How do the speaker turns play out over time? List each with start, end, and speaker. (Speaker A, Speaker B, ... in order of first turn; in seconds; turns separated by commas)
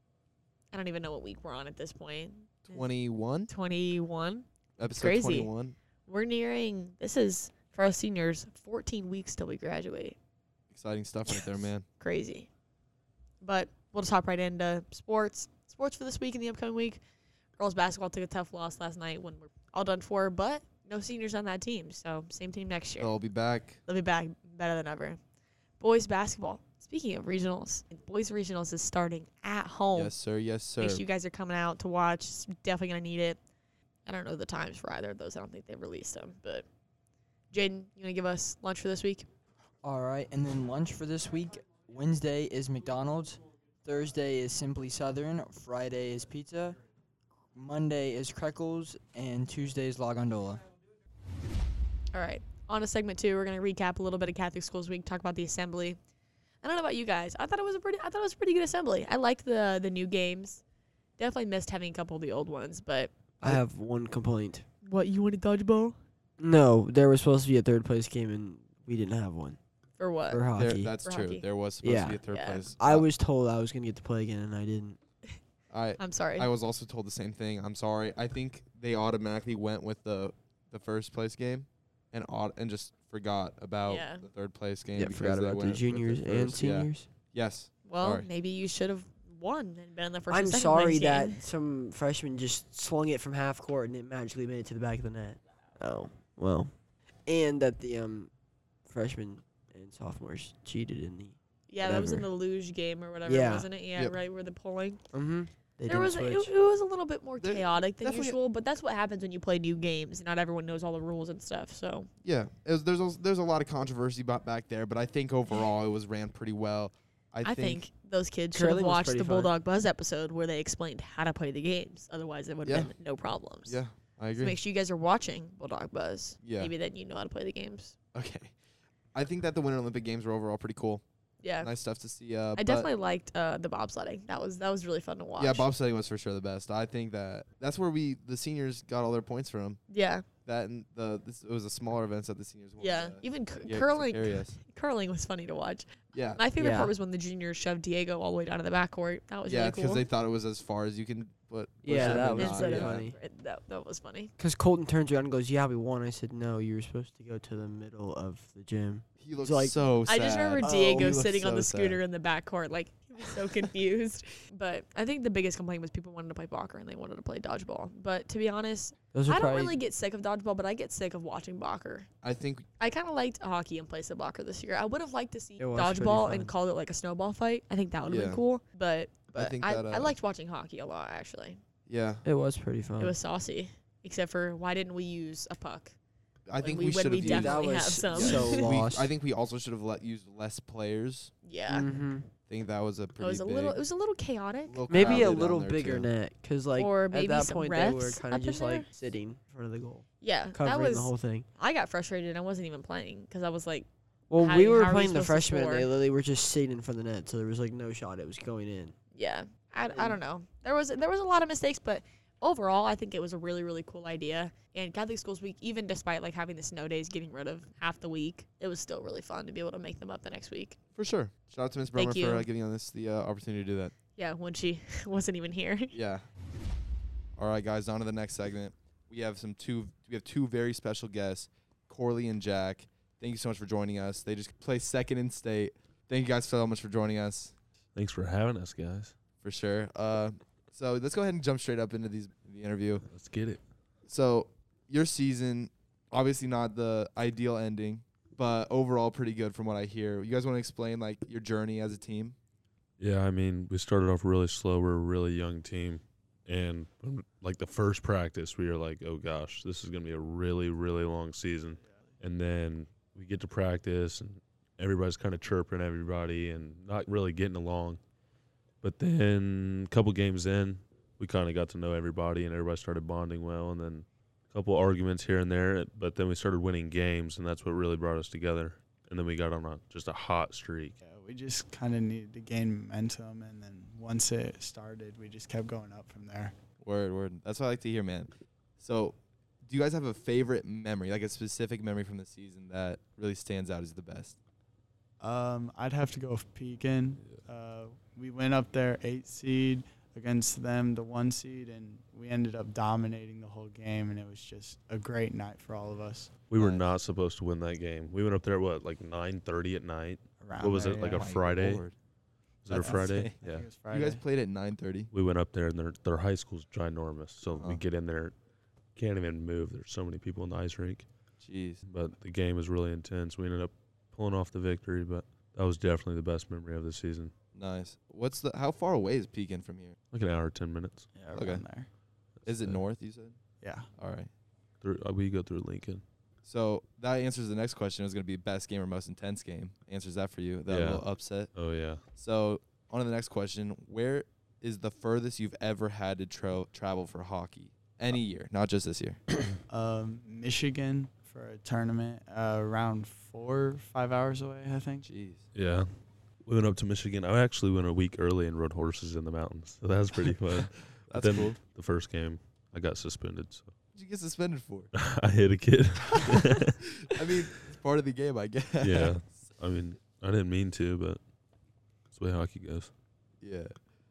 Speaker A: 0.7-2.9, Speaker B: 2.7-3.5, Speaker A: 3.5-5.5, Speaker B: 4.8-5.8, Speaker A: 6.0-10.2, Speaker B: 10.7-11.8, Speaker A: 11.3-12.5, Speaker A: 13.4-17.0, Speaker A: 17.6-23.1, Speaker B: 23.0-23.8, Speaker A: 23.9-25.2, Speaker A: 25.8-30.2, Speaker B: 29.9-31.1, Speaker A: 30.8-33.4, Speaker A: 34.0-36.7, Speaker A: 37.5-39.3, Speaker C: 39.8-46.8, Speaker C: 47.5-50.6, Speaker A: 52.1-56.0, Speaker A: 56.6-60.6, Speaker A: 61.2-63.6, Speaker D: 63.4-64.6, Speaker A: 64.8-66.0, Speaker D: 66.4-69.6, Speaker A: 70.0-70.5, Speaker D: 70.3-71.0, Speaker B: 70.5-73.1, Speaker A: 71.0-71.5, Speaker D: 71.8-75.0, Speaker A: 72.2-72.7, Speaker B: 75.7-88.3, Speaker A: 76.0-76.5, Speaker A: 83.8-84.3, Speaker D: 84.9-87.1, Speaker A: 87.8-91.4, Speaker D: 90.3-96.7, Speaker D: 97.3-98.3, Speaker D: 98.8-102.3, Speaker A: 101.7-105.0, Speaker D: 103.2-103.7, Speaker D: 105.1-106.5, Speaker A: 105.8-112.1, Speaker B: 107.4-108.4, Speaker B: 112.2-117.8, Speaker A: 117.4-123.8, Speaker D: 118.5-119.5, Speaker B: 122.6-122.9, Speaker B: 123.6-124.6, Speaker A: 124.4-127.9, Speaker B: 126.4-126.7, Speaker B: 128.1-128.5, Speaker B: 129.1-131.0, Speaker A: 131.4-131.7, Speaker B: 131.6-132.9, Speaker A: 132.6-135.7, Speaker B: 135.4-139.8, Speaker A: 139.9-140.2, Speaker B: 140.4-144.6, Speaker A: 142.8-150.1, Speaker B: 146.1-146.4, Speaker D: 146.6-146.9, Speaker B: 149.4-153.1, Speaker D: 151.8-153.2, Speaker A: 151.9-154.3, Speaker D: 154.4-159.8, Speaker B: 159.2-162.0, Speaker A: 160.1-172.1, Speaker D: 169.1-169.8, Speaker B: 172.2-172.7, Speaker A: 172.8-181.6, Speaker D: 175.6-176.5, Speaker B: 178.0-178.4, Speaker B: 179.3-180.1, Speaker B: 181.9-182.2, Speaker D: 182.2-183.2, Speaker A: 183.0-185.9, Speaker B: 186.5-191.3, Speaker A: 186.6-188.8, Speaker D: 187.2-189.1, Speaker A: 191.4-191.9, Speaker D: 191.7-192.3, Speaker B: 192.5-193.8, Speaker A: 193.2-195.4, Speaker B: 194.7-196.1, Speaker D: 194.9-201.4, Speaker A: 196.8-198.9, Speaker A: 200.2-205.9, Speaker D: 204.3-208.9, Speaker A: 209.1-220.8, Speaker B: 220.9-223.9, Speaker A: 221.9-222.5, Speaker A: 224.2-226.0, Speaker B: 225.9-226.2, Speaker B: 227.3-237.5, Speaker E: 237.9-239.1, Speaker B: 239.4-243.1, Speaker E: 243.0-243.6, Speaker B: 244.1-252.3, Speaker E: 253.0-268.0, Speaker F: 261.8-262.1, Speaker E: 268.8-281.0, Speaker F: 281.0-286.6, Speaker B: 286.8-294.4, Speaker F: 295.2-306.9, Speaker E: 306.5-311.9, Speaker F: 310.4-311.3, Speaker B: 311.0-311.9, Speaker E: 312.6-313.7, Speaker B: 312.7-315.1, Speaker F: 312.7-314.2, Speaker E: 315.1-318.4, Speaker B: 317.5-317.8, Speaker E: 319.0-321.1, Speaker B: 321.4-321.8, Speaker E: 321.9-327.3, Speaker B: 327.6-330.0, Speaker E: 330.1-331.1, Speaker F: 331.1-331.9, Speaker B: 331.3-331.6, Speaker E: 332.4-332.8, Speaker B: 332.4-333.4, Speaker F: 333.6-333.9, Speaker B: 333.9-334.3, Speaker E: 334.8-336.0, Speaker B: 336.4-341.5, Speaker E: 340.7-342.0, Speaker B: 342.2-349.2, Speaker F: 349.7-355.1, Speaker B: 355.0-355.4, Speaker E: 355.5-355.9, Speaker E: 356.4-363.7, Speaker B: 361.1-361.6, Speaker B: 363.9-364.9, Speaker E: 364.9-366.7, Speaker B: 366.4-369.3, Speaker E: 368.8-371.2, Speaker E: 372.1-372.9, Speaker B: 373.4-373.7